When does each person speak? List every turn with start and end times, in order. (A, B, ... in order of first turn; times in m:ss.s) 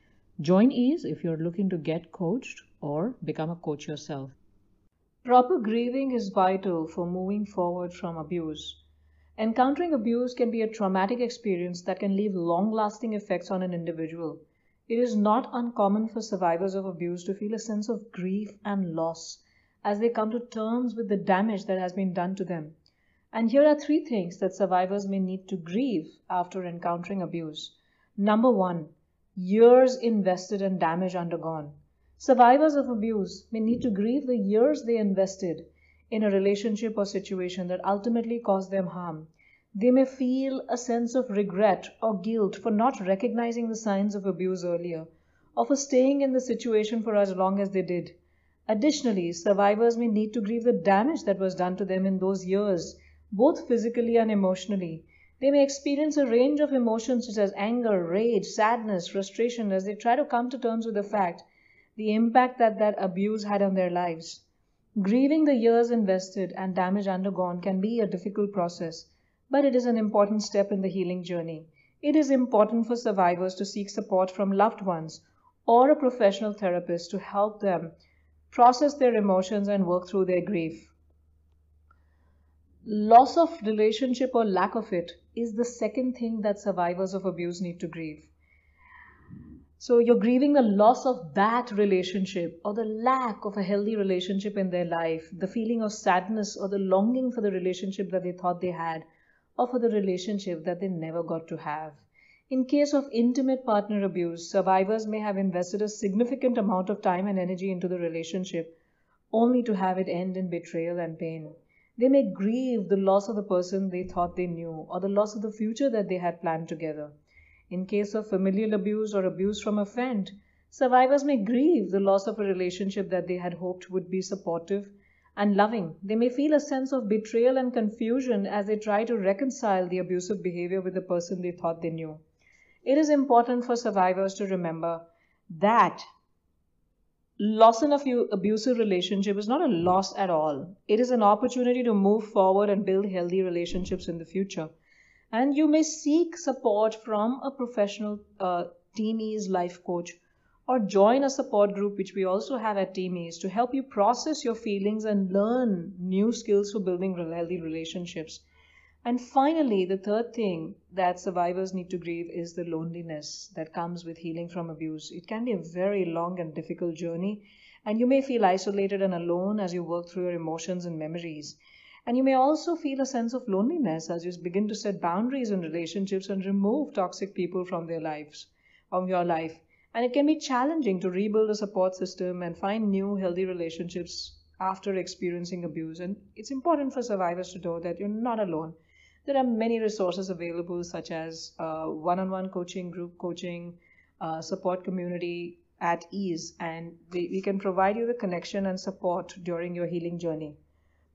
0:00.4-0:04.4 A
0:05.2-0:08.8 A
0:09.4-0:22.7 A
0:23.3-0:48.2 A
0:48.7-1:01.4 A
1:02.0-1:04.4 A
1:05.0-1:17.9 A
1:18.5-1:20.9 A
1:22.8-1:28.3 A
1:29.8-1:39.0 A
1:39.6-1:48.7 A
1:49.3-1:57.1 A
1:57.7-2:12.2 A
2:12.8-2:16.0 A
2:17.4-2:24.7 A
2:25.3-2:38.4 A
2:39.0-3:20.6 A